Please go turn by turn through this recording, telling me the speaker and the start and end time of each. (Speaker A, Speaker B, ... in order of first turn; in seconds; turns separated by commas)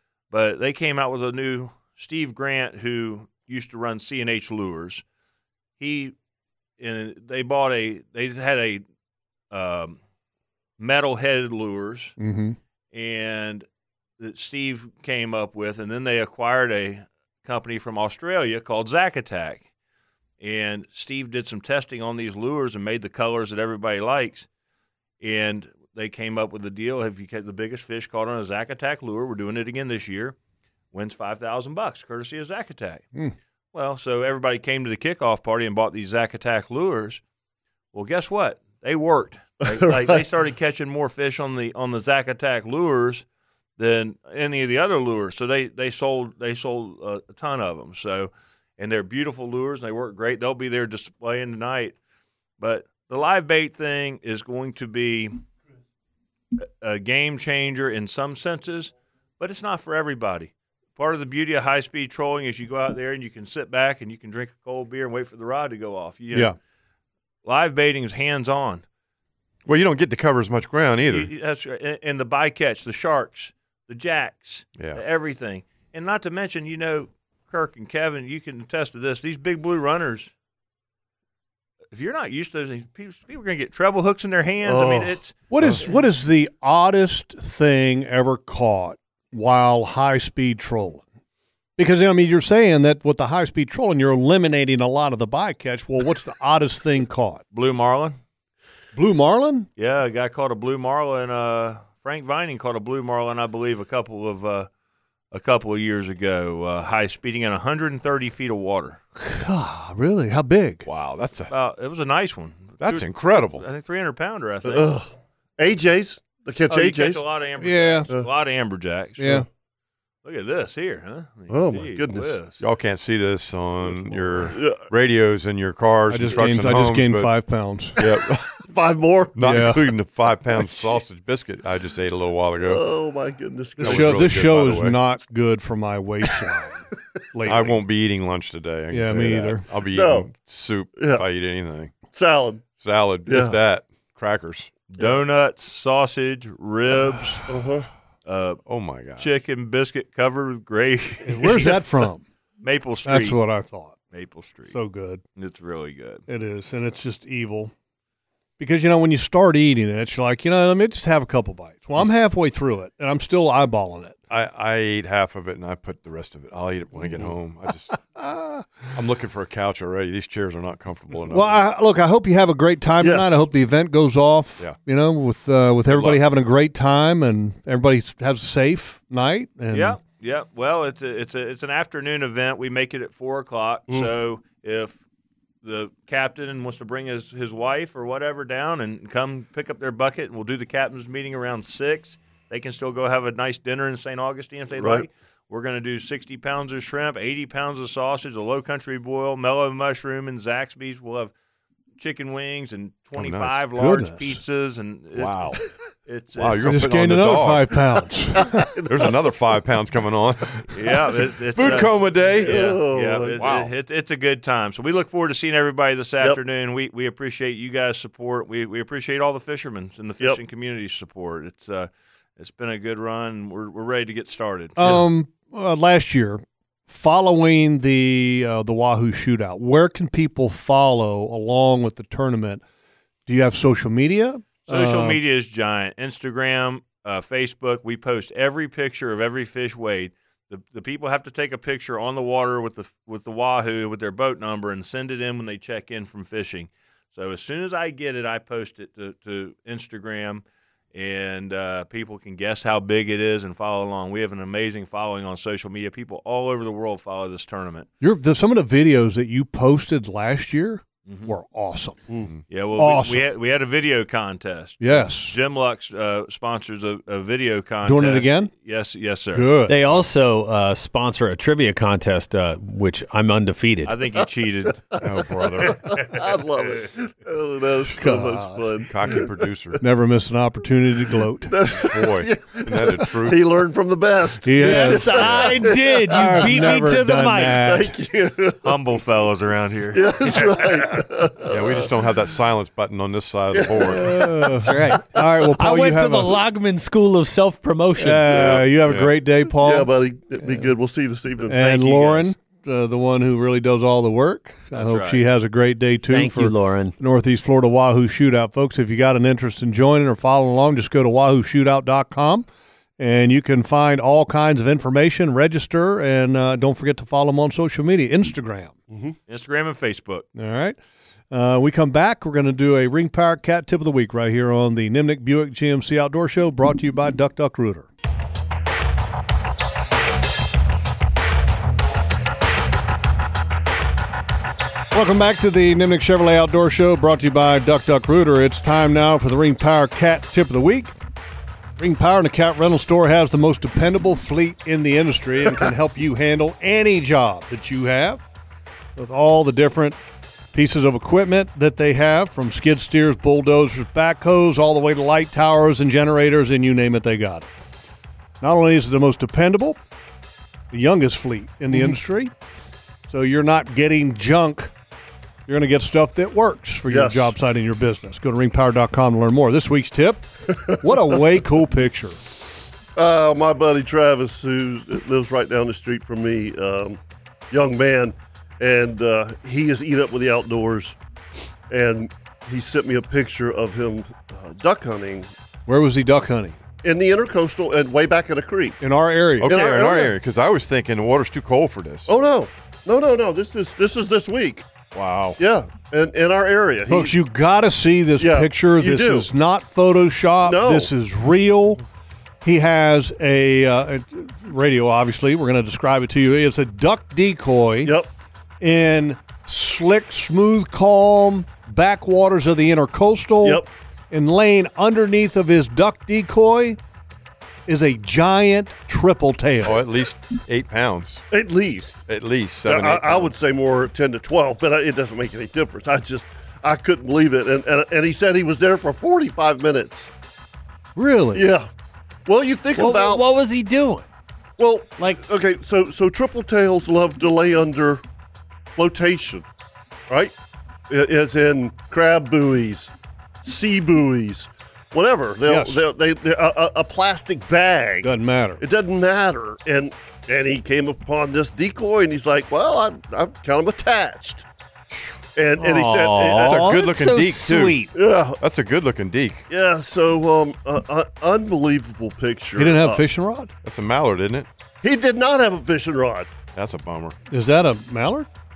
Speaker A: 0.3-5.0, Speaker A: 5.8-6.1, Speaker A: 6.8-8.8, Speaker A: 9.5-10.0, Speaker A: 10.8-12.1, Speaker B: 12.2-12.6, Speaker A: 12.9-13.7, Speaker A: 14.2-19.6, Speaker A: 20.4-24.5, Speaker A: 25.2-30.4, Speaker A: 30.9-33.0, Speaker A: 33.7-37.2, Speaker A: 37.9-43.2, Speaker C: 39.6-40.2, Speaker A: 43.8-52.0, Speaker A: 52.6-55.3, Speaker A: 56.6-66.5, Speaker A: 67.4-68.8, Speaker D: 69.6-71.3, Speaker A: 71.1-80.3, Speaker A: 81.9-86.0, Speaker C: 84.6-85.7, Speaker B: 85.5-91.0, Speaker B: 91.8-97.4, Speaker A: 97.5-98.2, Speaker B: 98.9-99.7, Speaker A: 99.8-104.7, Speaker A: 105.3-109.0, Speaker B: 109.2-110.8, Speaker D: 110.8-111.5, Speaker A: 111.5-114.9, Speaker D: 112.8-113.6, Speaker C: 114.6-117.2, Speaker A: 116.7-119.4, Speaker B: 117.6-118.1, Speaker B: 119.2-119.5, Speaker A: 120.2-122.6, Speaker C: 121.5-122.3, Speaker D: 122.6-127.3, Speaker C: 123.8-124.8, Speaker B: 126.1-128.0, Speaker D: 128.0-128.6, Speaker C: 128.6-129.4, Speaker D: 129.3-132.8, Speaker B: 129.4-129.9, Speaker C: 132.6-134.2, Speaker B: 133.8-137.8, Speaker D: 133.8-134.9, Speaker D: 137.4-141.9, Speaker B: 138.9-139.7, Speaker C: 139.9-140.3, Speaker C: 140.9-141.2, Speaker C: 142.1-142.6, Speaker D: 142.8-144.7, Speaker C: 143.3-143.5, Speaker A: 144.9-147.5, Speaker C: 147.5-147.9, Speaker A: 148.2-148.6, Speaker D: 148.7-149.3, Speaker A: 149.2-151.8, Speaker B: 151.2-152.2, Speaker A: 152.6-153.4, Speaker B: 153.0-153.9, Speaker A: 154.1-154.7, Speaker B: 154.7-155.2, Speaker A: 155.3-156.2, Speaker B: 156.3-157.7, Speaker B: 158.6-164.2, Speaker D: 164.3-168.0, Speaker B: 168.1-168.7, Speaker D: 168.9-171.6, Speaker B: 171.2-180.0, Speaker C: 173.0-173.4, Speaker D: 175.9-176.2, Speaker A: 179.7-185.0, Speaker A: 185.6-201.3, Speaker C: 194.7-195.1, Speaker A: 202.0-206.8, Speaker D: 203.2-203.6, Speaker B: 203.8-204.4, Speaker D: 205.1-205.6, Speaker D: 206.3-207.8, Speaker B: 206.6-208.7, Speaker D: 208.8-212.7, Speaker A: 210.7-225.0, Speaker C: 212.4-213.5, Speaker D: 213.3-213.7, Speaker B: 224.8-232.6, Speaker B: 233.2-235.2, Speaker A: 234.7-257.9, Speaker B: 258.0-262.0, Speaker A: 261.1-261.3, Speaker A: 262.5-269.5, Speaker B: 262.8-263.2, Speaker B: 264.8-265.4, Speaker B: 267.8-268.5, Speaker B: 269.3-269.8, Speaker E: 269.7-273.9, Speaker A: 273.8-275.0, Speaker D: 275.0-275.9, Speaker C: 275.6-279.3, Speaker B: 277.9-278.6, Speaker D: 278.9-279.8, Speaker B: 279.8-281.5, Speaker C: 281.4-286.1, Speaker D: 281.7-283.4, Speaker B: 284.4-285.3, Speaker E: 284.6-287.8, Speaker B: 286.1-287.9, Speaker C: 287.5-288.8, Speaker A: 288.6-290.6, Speaker C: 289.9-291.9, Speaker D: 291.4-294.4, Speaker C: 293.5-294.6, Speaker B: 293.8-296.4, Speaker E: 294.6-298.4, Speaker B: 298.0-300.7, Speaker D: 298.3-299.1, Speaker C: 299.6-301.7, Speaker B: 301.5-312.5, Speaker A: 301.6-302.2, Speaker A: 304.7-305.2, Speaker E: 306.1-306.9, Speaker B: 313.0-318.8, Speaker C: 318.9-319.1, Speaker A: 319.3-320.2, Speaker B: 320.3-320.8, Speaker B: 321.3-327.9, Speaker B: 334.9-340.9, Speaker B: 341.8-348.2, Speaker B: 348.9-350.0, Speaker B: 350.5-357.5, Speaker B: 358.4-359.8, Speaker B: 360.7-362.3, Speaker B: 363.1-364.7, Speaker B: 365.5-372.2, Speaker C: 366.9-367.3, Speaker C: 372.9-377.0, Speaker C: 377.5-380.9, Speaker C: 381.7-385.3, Speaker B: 385.7-386.6, Speaker C: 386.8-388.8, Speaker B: 388.8-389.5, Speaker D: 389.4-392.1, Speaker C: 389.4-390.1, Speaker C: 392.1-394.6, Speaker D: 394.9-395.4, Speaker C: 395.4-397.1, Speaker B: 396.9-401.8, Speaker C: 398.2-399.3, Speaker C: 400.4-400.9, Speaker B: 402.4-407.9, Speaker C: 407.8-408.1, Speaker B: 408.6-416.8, Speaker C: 413.4-413.7, Speaker B: 417.7-419.8, Speaker D: 419.6-421.2, Speaker C: 421.3-422.0, Speaker D: 422.1-423.3, Speaker C: 422.6-430.1, Speaker B: 430.9-431.5, Speaker C: 431.3-431.7, Speaker C: 432.2-433.2, Speaker E: 432.8-434.1, Speaker C: 434.6-438.0, Speaker C: 438.8-439.4, Speaker C: 440.9-442.9, Speaker C: 443.4-454.4, Speaker B: 445.5-445.8, Speaker B: 448.0-448.6, Speaker C: 455.4-456.7, Speaker E: 455.6-457.9, Speaker D: 456.4-459.5, Speaker C: 457.9-458.4, Speaker C: 459.5-463.0, Speaker B: 462.6-463.5, Speaker D: 463.6-464.5, Speaker C: 464.8-466.3, Speaker D: 466.5-467.1, Speaker B: 467.3-468.3